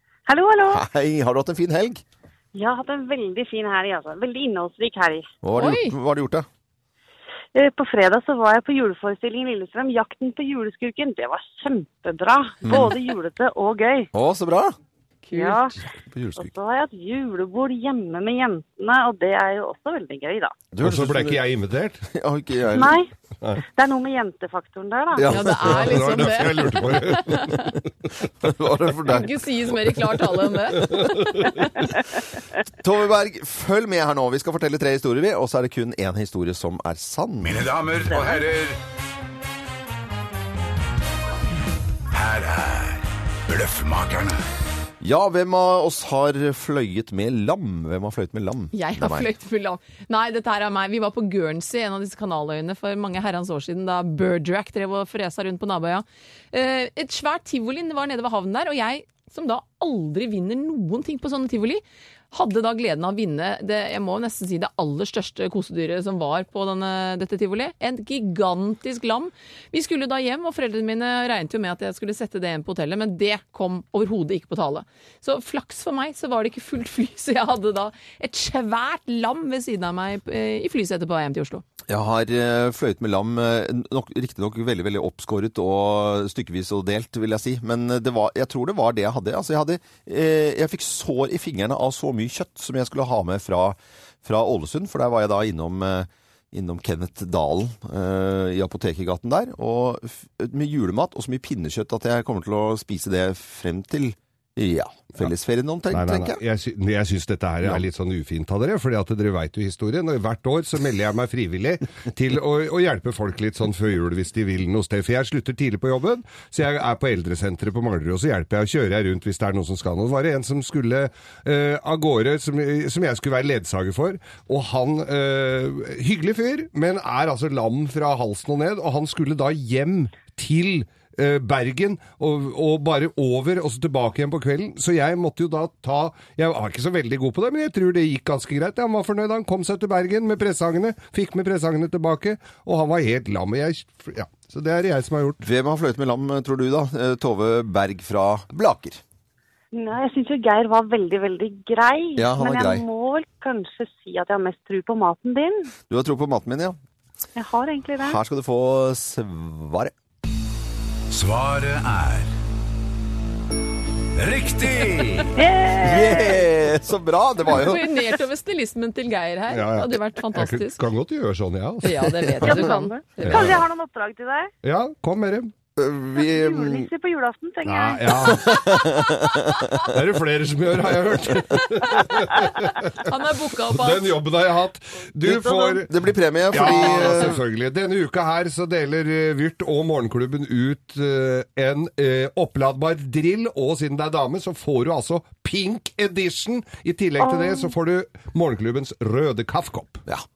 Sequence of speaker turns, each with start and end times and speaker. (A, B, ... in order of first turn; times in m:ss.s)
0:00.3-0:00.8 A
0:00.7-0:02.0 B
0:02.5-0:05.3 A
0:05.4-0:06.5 B
0:05.6-0:06.0 C
0:07.5-0:14.1 A
0:12.6-0:13.0 B
0:14.1-0:14.8 B
0:15.3-0:15.7 C
0:15.3-0:15.8 A
0:15.9-0:16.5 B
0:16.4-0:20.6 A
0:20.7-0:21.4 B
0:20.8-0:22.0 D
0:22.1-0:23.0 B
0:22.7-0:25.4 A
0:25.2-0:26.0 B
0:25.2-0:27.8 C
0:25.7-0:27.7 D
0:28.4-0:29.4 B
0:29.1-0:31.5 C
0:30.8-0:31.5 D
0:32.8-0:37.7 B
0:37.4-0:38.8 E
0:42.1-0:44.4 E
0:45.0-0:49.3 B
0:48.7-1:21.6 C
1:21.9-1:46.4 B
1:45.9-2:25.4 D
2:25.4-2:29.0 B
2:29.7-2:35.7 A
2:32.2-2:32.8 B
2:35.9-2:36.8 B
2:37.4-2:38.2 A
2:38.0-2:39.9 B
2:41.1-2:42.3 E
2:44.2-2:45.3 E
2:45.4-2:46.5 A
2:45.8-2:47.9 B
2:47.5-2:50.8 C
2:49.5-2:52.0 D
2:51.8-2:53.5 C
2:52.4-2:54.5 A
2:53.2-2:53.6 D
2:54.6-2:55.5 D
2:55.8-2:56.9 B
2:56.1-2:59.0 A
2:57.6-2:58.6 D
2:58.3-2:59.8 B
2:59.9-3:03.1 D
3:03.0-3:04.2 C
3:03.7-3:05.9 D
3:05.2-3:07.4 B
3:06.5-3:20.0 D
3:17.2-3:17.5 A